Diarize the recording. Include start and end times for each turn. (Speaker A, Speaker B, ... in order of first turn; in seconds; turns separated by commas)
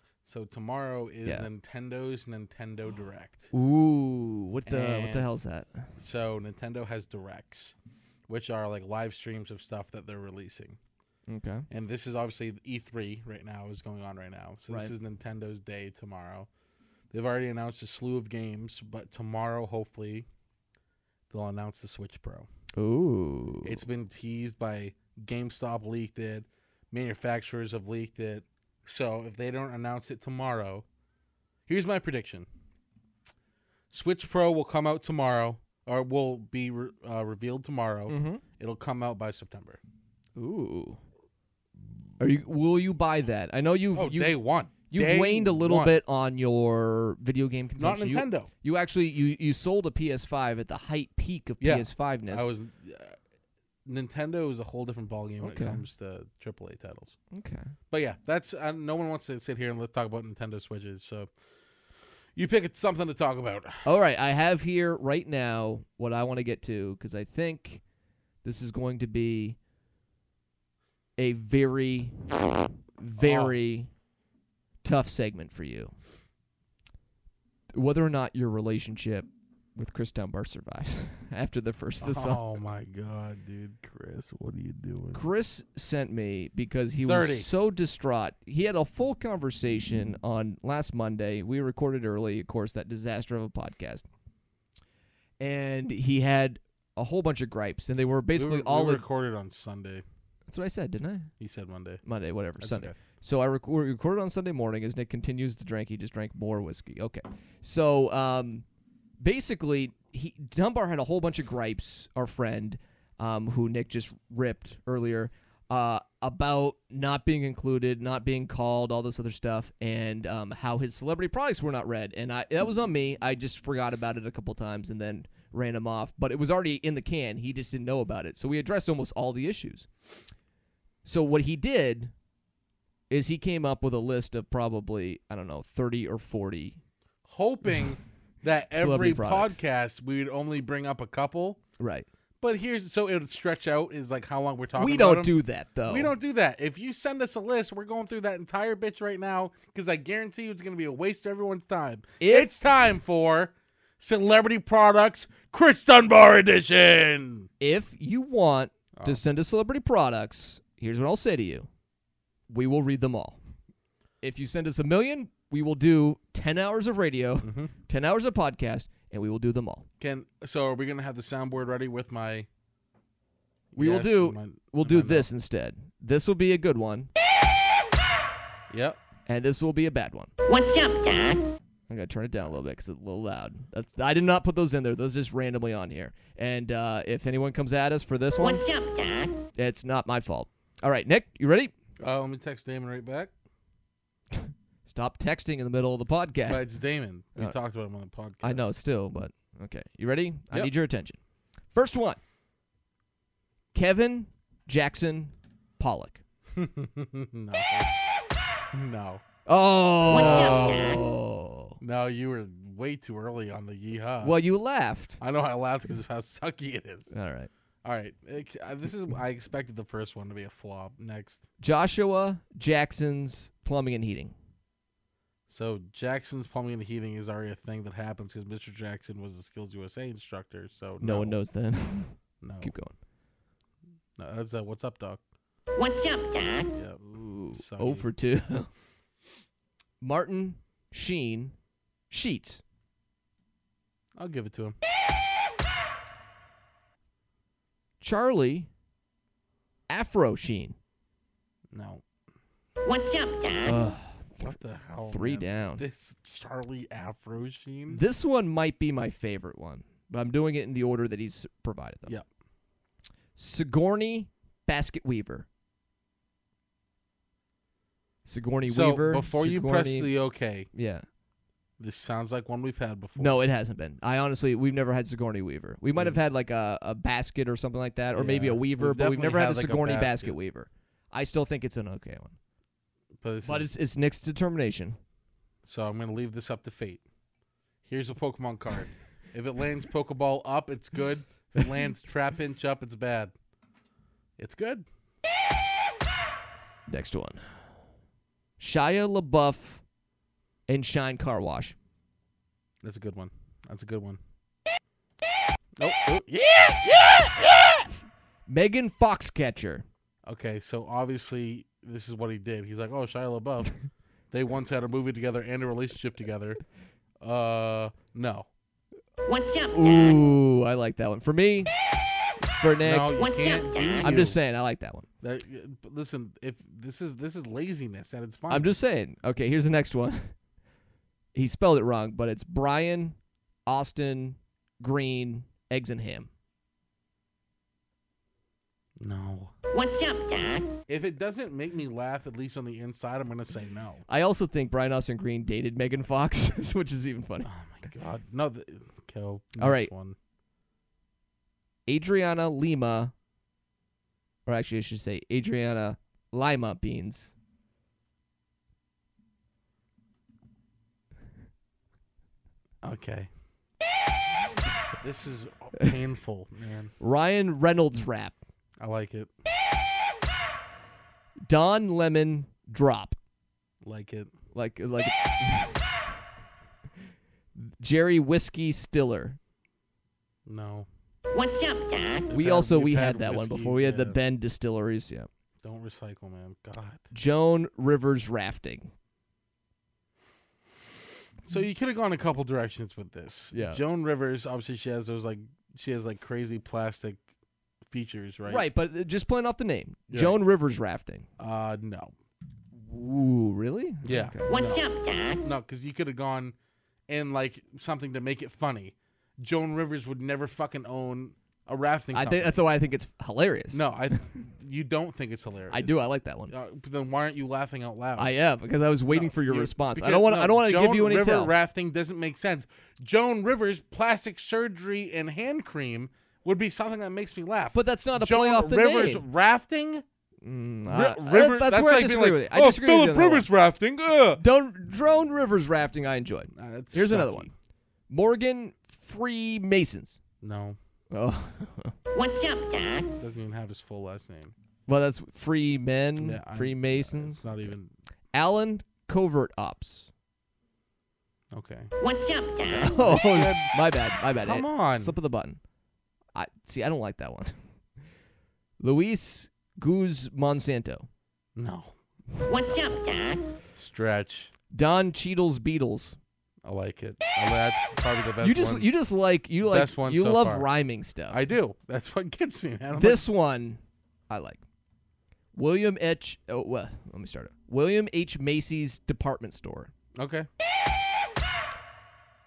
Speaker A: 0.2-3.5, Speaker B: 3.5-5.9, Speaker A: 4.7-5.3, Speaker A: 6.0-7.7, Speaker A: 8.3-10.8, Speaker B: 11.3-11.7, Speaker A: 11.7-16.5, Speaker A: 17.1-20.3, Speaker A: 21.3-22.5, Speaker B: 22.8-23.8, Speaker A: 23.6-30.8, Speaker A: 31.7-32.5, Speaker A: 33.9-39.8, Speaker B: 38.1-38.4, Speaker B: 40.4-41.0, Speaker B: 42.2-44.4, Speaker A: 43.9-46.0, Speaker B: 44.9-52.5, Speaker A: 47.8-48.5, Speaker A: 51.6-53.2, Speaker A: 53.9-57.2, Speaker B: 55.4-55.8, Speaker B: 57.3-57.7, Speaker A: 57.9-61.3, Speaker A: 62.3-63.8, Speaker B: 63.8-67.8, Speaker B: 68.4-69.6, Speaker B: 71.2-72.4, Speaker B: 73.0-73.9, Speaker A: 73.2-73.5, Speaker B: 74.8-75.9, Speaker B: 77.7-82.4, Speaker A: 82.0-85.2, Speaker B: 85.1-94.0, Speaker A: 87.0-87.5, Speaker B: 95.4-99.0, Speaker A: 98.4-100.0, Speaker B: 100.5-101.3, Speaker A: 101.4-102.0, Speaker B: 102.0-108.6, Speaker A: 102.6-102.9, Speaker B: 109.2-129.9, Speaker B: 131.0-132.1, Speaker B: 133.1-136.8, Speaker A: 137.3-141.6, Speaker B: 138.7-139.6, Speaker B: 141.8-142.1, Speaker A: 142.4-145.3, Speaker B: 144.8-146.1, Speaker A: 145.9-157.5, Speaker B: 152.2-152.5, Speaker B: 157.6-161.7, Speaker B: 162.5-163.4, Speaker B: 164.2-169.9, Speaker A: 167.4-167.7, Speaker A: 170.0-172.5, Speaker A: 173.7-175.3, Speaker B: 173.8-177.1, Speaker A: 178.7-179.0, Speaker B: 179.3-180.3, Speaker C: 180.4-181.5, Speaker B: 181.9-188.6, Speaker C: 188.4-189.4, Speaker B: 189.5-191.7, Speaker A: 192.0-193.3, Speaker B: 194.8-196.6, Speaker A: 196.5-198.6, Speaker B: 198.4-201.2, Speaker B: 201.7-202.2, Speaker B: 203.7-206.2, Speaker A: 206.5-207.9, Speaker A: 208.7-209.2, Speaker B: 209.4-211.8, Speaker A: 210.1-211.0, Speaker C: 210.1-211.0, Speaker A: 211.8-214.3, Speaker B: 214.2-215.2, Speaker A: 215.2-217.1, Speaker B: 217.1-217.5, Speaker A: 217.8-221.4, Speaker B: 221.6-224.3, Speaker A: 225.5-231.4, Speaker B: 231.0-232.9, Speaker A: 232.4-232.7, Speaker A: 234.2-235.2, Speaker C: 235.7-236.7, Speaker A: 236.7-237.0, Speaker B: 237.1-238.7, Speaker A: 237.5-238.1, Speaker B: 240.0-241.5, Speaker B: 242.1-242.6, Speaker A: 244.2-244.8, Speaker B: 248.0-248.7, Speaker B: 249.9-250.8, Speaker A: 251.7-252.0, Speaker C: 252.8-253.7, Speaker B: 253.6-255.8, Speaker A: 254.4-258.0, Speaker B: 257.9-262.1, Speaker B: 263.4-265.4, Speaker B: 268.2-270.1, Speaker A: 268.6-270.7, Speaker B: 270.7-271.1, Speaker A: 271.8-273.4, Speaker B: 273.2-282.4, Speaker A: 278.1-280.3, Speaker A: 283.2-283.7, Speaker B: 283.4-285.0, Speaker A: 285.6-287.0, Speaker A: 287.8-293.3, Speaker A: 294.4-294.9, Speaker B: 296.9-297.4, Speaker B: 298.6-299.8, Speaker B: 300.7-301.8, Speaker A: 302.8-304.2, Speaker A: 305.8-307.9, Speaker B: 308.5-309.9, Speaker A: 310.2-313.7, Speaker A: 314.3-316.6, Speaker A: 317.2-318.5, Speaker C: 319.2-320.1, Speaker B: 319.7-321.7, Speaker B: 322.5-323.2, Speaker A: 322.8-324.4, Speaker B: 324.0-325.1, Speaker A: 325.2-328.7, Speaker B: 328.5-330.3, Speaker B: 331.3-336.3, Speaker A: 339.0-339.5, Speaker C: 339.7-340.7, Speaker A: 340.9-344.0, Speaker B: 344.1-347.5, Speaker A: 347.4-350.1, Speaker B: 349.6-349.9, Speaker B: 351.9-353.1, Speaker B: 354.4-357.3, Speaker A: 362.8-363.3, Speaker A: 365.0-366.9, Speaker B: 367.0-368.3, Speaker A: 368.8-369.3, Speaker B: 371.5-373.1, Speaker A: 373.8-374.3, Speaker B: 374.5-375.8, Speaker B: 377.6-379.4, Speaker A: 380.4-380.9, Speaker C: 381.3-382.3, Speaker A: 382.3-384.1, Speaker B: 382.3-385.3, Speaker A: 385.6-387.0, Speaker B: 387.1-388.9, Speaker A: 391.4-397.2, Speaker B: 393.5-393.8, Speaker A: 397.9-398.6, Speaker B: 398.5-401.2, Speaker A: 400.1-400.4, Speaker A: 401.4-402.1, Speaker B: 402.7-404.5, Speaker A: 404.0-404.9, Speaker C: 404.5-405.4, Speaker A: 405.4-406.5, Speaker A: 407.1-412.6, Speaker B: 412.1-413.8, Speaker A: 413.7-418.3, Speaker B: 415.7-416.5, Speaker B: 418.2-421.5, Speaker A: 419.1-430.0, Speaker B: 427.7-429.2, Speaker B: 430.4-433.5, Speaker A: 430.9-434.4, Speaker B: 434.4-437.5, Speaker A: 436.6-437.5, Speaker B: 438.1-440.2, Speaker A: 440.4-440.8, Speaker B: 441.1-441.9, Speaker C: 442.1-443.1, Speaker A: 443.2-444.5, Speaker B: 444.9-447.7, Speaker A: 446.2-447.9, Speaker B: 448.3-450.1, Speaker A: 451.5-451.9, Speaker C: 452.0-452.7, Speaker B: 452.7-455.6, Speaker A: 452.8-453.7, Speaker A: 454.4-455.1, Speaker B: 456.3-457.6, Speaker B: 458.8-461.1, Speaker A: 461.6-461.9, Speaker C: 462.5-463.4, Speaker A: 462.6-463.0, Speaker A: 463.7-464.5, Speaker B: 464.7-466.2, Speaker A: 466.6-468.9, Speaker B: 468.4-471.4, Speaker A: 469.6-470.7, Speaker A: 471.3-473.2, Speaker B: 472.9-474.6, Speaker B: 475.5-479.9, Speaker A: 480.2-480.5